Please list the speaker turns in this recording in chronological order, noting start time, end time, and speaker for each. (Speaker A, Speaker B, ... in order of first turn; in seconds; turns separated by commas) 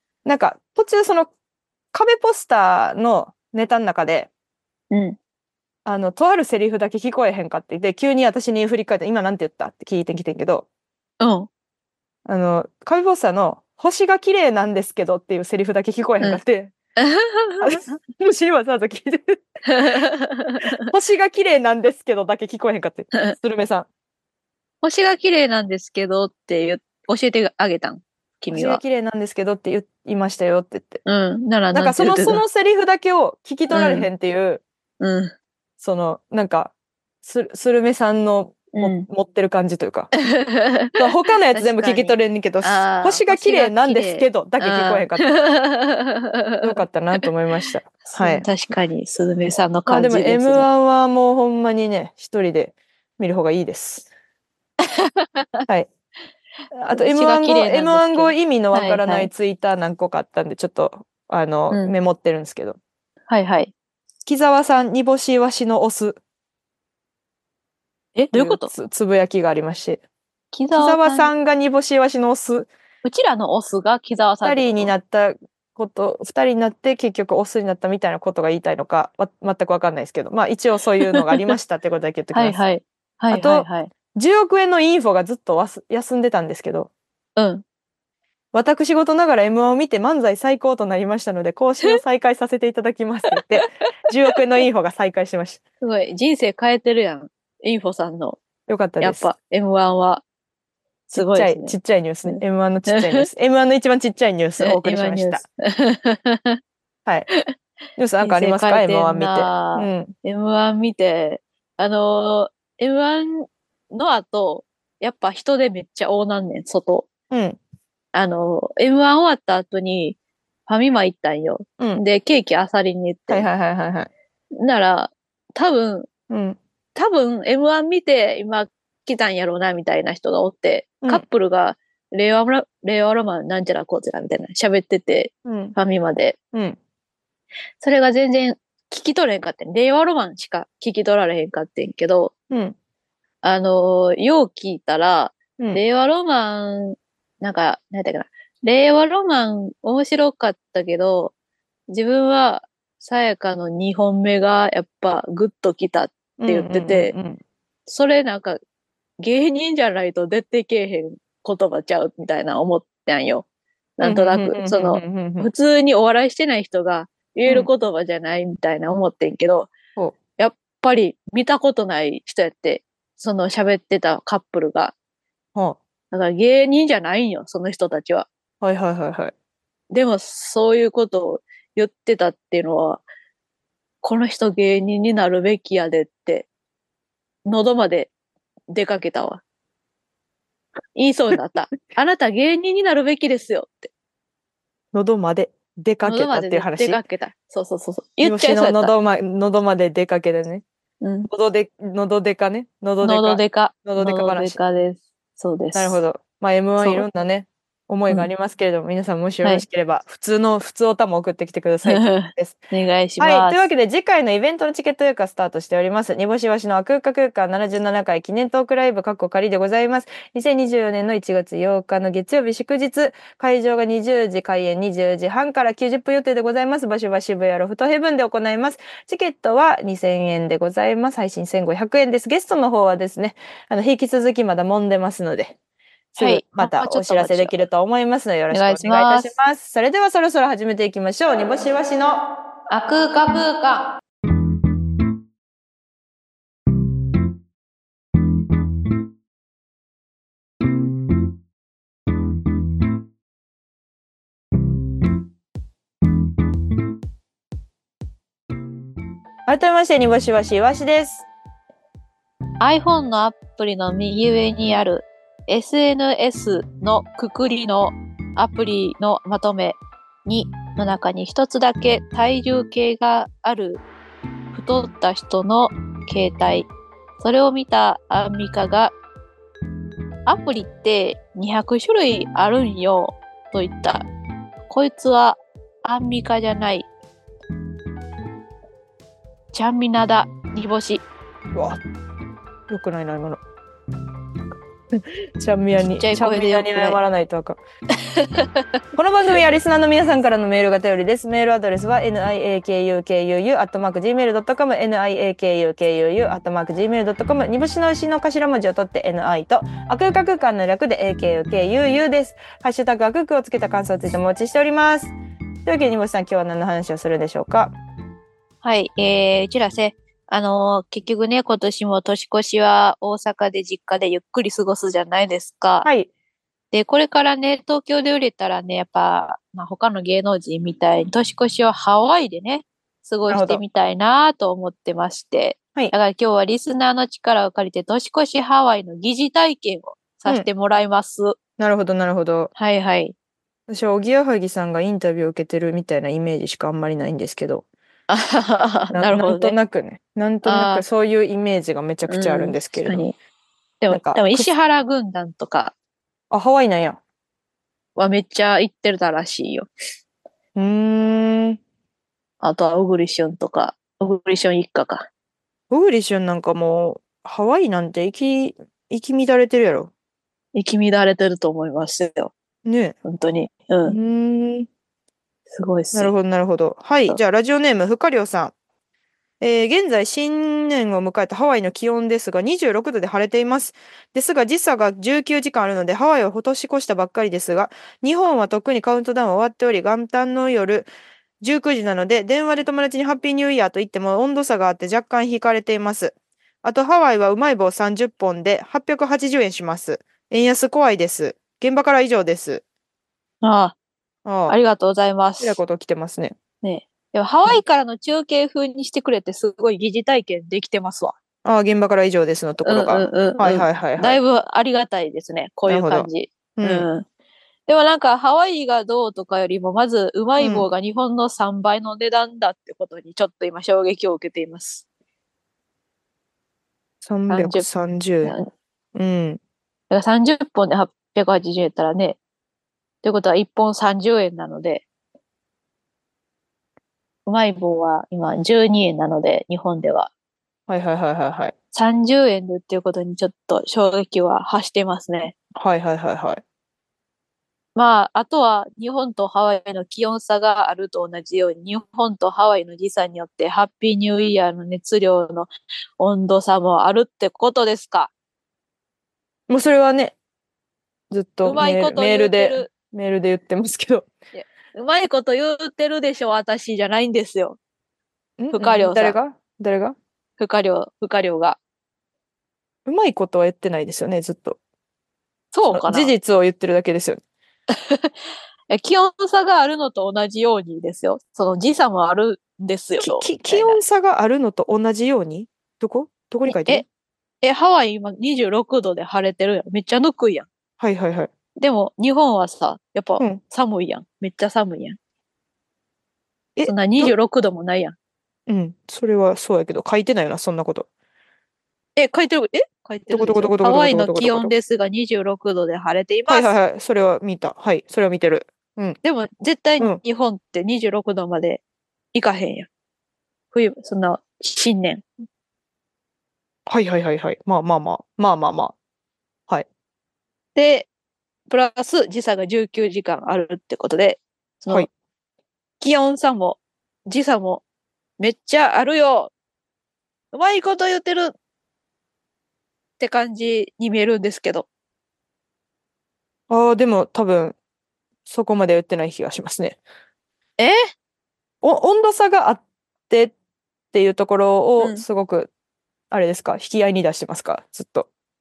Speaker A: 0.2-1.3, Speaker A: 1.9-4.3, Speaker B: 4.9-5.2, Speaker A: 5.8-10.7, Speaker B: 11.2-11.5, Speaker A: 12.2-16.7, Speaker B: 17.0-17.8, Speaker A: 17.6-19.4, Speaker B: 19.7-20.9, Speaker A: 20.8-23.9, Speaker B: 24.8-28.8, Speaker A: 28.5-31.0, Speaker B: 31.0-32.4, Speaker A: 31.7-34.6, Speaker B: 33.7-34.1, Speaker B: 35.0-35.3, Speaker A: 35.8-36.7, Speaker A: 37.2-40.1, Speaker B: 38.7-39.0, Speaker B: 40.2-41.0, Speaker A: 41.0-45.3, Speaker B: 41.5-47.2, Speaker A: 46.6-48.5, Speaker B: 48.0-50.6, Speaker A: 49.9-54.1, Speaker B: 55.0-55.6, Speaker A: 56.7-62.8, Speaker B: 56.9-59.3, Speaker B: 63.3-63.7, Speaker A: 64.2-66.2, Speaker B: 68.2-68.7, Speaker A: 68.3-70.0, Speaker B: 70.5-71.3, Speaker A: 70.7-72.7, Speaker B: 73.0-74.9, Speaker A: 74.4-82.7, Speaker B: 82.3-83.9, Speaker A: 83.3-86.9, Speaker B: 87.3-87.6, Speaker A: 88.5-95.6, Speaker B: 95.8-98.4, Speaker A: 98.7-99.3, Speaker B: 99.0-100.2, Speaker B: 101.1-103.3, Speaker A: 101.1-105.4, Speaker B: 104.6-106.6, Speaker A: 108.0-110.1, Speaker B: 108.2-117.1, Speaker A: 117.3-117.6, Speaker B: 118.1-123.5, Speaker A: 123.3-124.1, Speaker B: 124.5-126.1, Speaker A: 126.3-126.6, Speaker B: 126.9-136.4, Speaker A: 135.4-135.8, Speaker A: 136.5-136.8, Speaker B: 137.8-142.3, Speaker A: 142.5-142.8, Speaker B: 143.4-151.3, Speaker B: 151.9-157.1, Speaker A: 156.4-157.4, Speaker B: 157.9-158.6, Speaker B: 159.2-163.4, Speaker B: 164.0-169.7, Speaker A: 164.0-165.5, Speaker B: 170.4-174.9, Speaker A: 175.5-175.8, Speaker B: 176.1-178.3, Speaker A: 178.6-179.3, Speaker B: 179.9-183.0, Speaker B: 184.0-186.5, Speaker B: 187.4-188.1, Speaker B: 188.7-189.4, Speaker B: 190.9-193.9, Speaker A: 194.9-197.0, Speaker B: 196.0-198.9, Speaker A: 198.2-200.6, Speaker B: 201.0-201.3, Speaker A: 201.3-204.6, Speaker B: 203.0-206.0, Speaker A: 205.7-212.6, Speaker B: 206.8-207.1, Speaker B: 211.9-213.7, Speaker A: 213.2-235.6, Speaker A: 236.1-242.2, Speaker B: 236.2-237.5, Speaker B: 238.5-239.3, Speaker B: 242.7-243.9, Speaker A: 259.4-261.3, Speaker B: 262.6-273.8, Speaker B: 274.5-276.7, Speaker B: 277.2-278.9, Speaker B: 280.2-284.1, Speaker B: 284.7-286.9, Speaker B: 289.5-291.0, Speaker A: 291.5-291.8, Speaker A: 292.7-293.4, Speaker A: 294.9-297.6, Speaker B: 295.9-297.0, Speaker B: 298.0-298.7, Speaker A: 298.9-315.1, Speaker A: 315.6-317.7, Speaker B: 318.6-325.9, Speaker A: 325.8-326.1, Speaker B: 326.7-341.4, Speaker A: 333.3-333.6, Speaker A: 341.6-342.5, Speaker B: 342.6-343.1, Speaker A: 343.7-347.6, Speaker B: 348.1-349.6, Speaker A: 348.9-353.1, Speaker B: 350.4-350.8, Speaker B: 352.1-353.1, Speaker B: 353.8-355.7, Speaker A: 353.9-354.5, Speaker A: 356.3-357.0, Speaker B: 357.9-359.7, Speaker A: 360.6-361.6, Speaker B: 362.4-365.1, Speaker A: 365.7-369.9, Speaker B: 370.5-372.3, Speaker A: 372.6-372.9, Speaker B: 373.0-374.0, Speaker A: 373.8-374.7, Speaker B: 375.5-376.1, Speaker A: 375.9-378.5, Speaker A: 379.4-390.9, Speaker A: 391.4-402.6, Speaker B: 403.4-403.8, Speaker A: 404.2-404.6, Speaker B: 404.5-405.6, Speaker A: 405.4-406.4, Speaker B: 406.6-411.1, Speaker A: 411.4-414.2, Speaker B: 412.6-417.1, Speaker A: 415.7-416.9, Speaker B: 417.7-424.8, Speaker A: 420.4-420.7, Speaker A: 427.0-428.4, Speaker B: 427.3-427.6, Speaker A: 428.9-429.4, Speaker B: 429.9-432.2, Speaker B: 433.0-434.8, Speaker B: 437.2-440.1, Speaker A: 440.7-441.5, Speaker B: 441.7-445.3, Speaker A: 445.6-446.4, Speaker B: 447.7-458.1, Speaker A: 459.5-460.1, Speaker A: 461.1-464.1, Speaker B: 461.4-462.7, Speaker B: 464.3-467.6, Speaker A: 468.4-469.9, Speaker B: 468.5-469.1, Speaker B: 470.4-471.6, Speaker A: 472.9-474.6, Speaker B: 475.5-476.1, Speaker A: 475.7-477.2, Speaker B: 477.7-478.1, Speaker B: 478.7-483.8, Speaker A: 483.0-486.8, Speaker B: 486.5-486.8, Speaker B: 487.4-490.5, Speaker A: 490.8-491.3, Speaker B: 491.6-495.0, Speaker A: 496.6-497.1, Speaker B: 496.6-497.9, Speaker A: 498.5-500.9, Speaker B: 501.9-506.5, Speaker A: 503.1-504.5, Speaker A: 506.3-509.0, Speaker B: 509.0-511.6, Speaker B: 512.1-512.7, Speaker B: 513.5-515.0, Speaker A: 516.7-518.7, Speaker B: 520.5-520.9, Speaker B: 521.5-524.9, Speaker B: 525.8-527.6, Speaker B: 528.2-529.3, Speaker B: 530.3-531.3, Speaker B: 533.0-534.7, Speaker A: 536.5-537.5, Speaker A: 538.2-539.8, Speaker B: 540.6-540.9, Speaker A: 541.6-543.3, Speaker A: 543.9-545.5, Speaker A: 546.1-548.1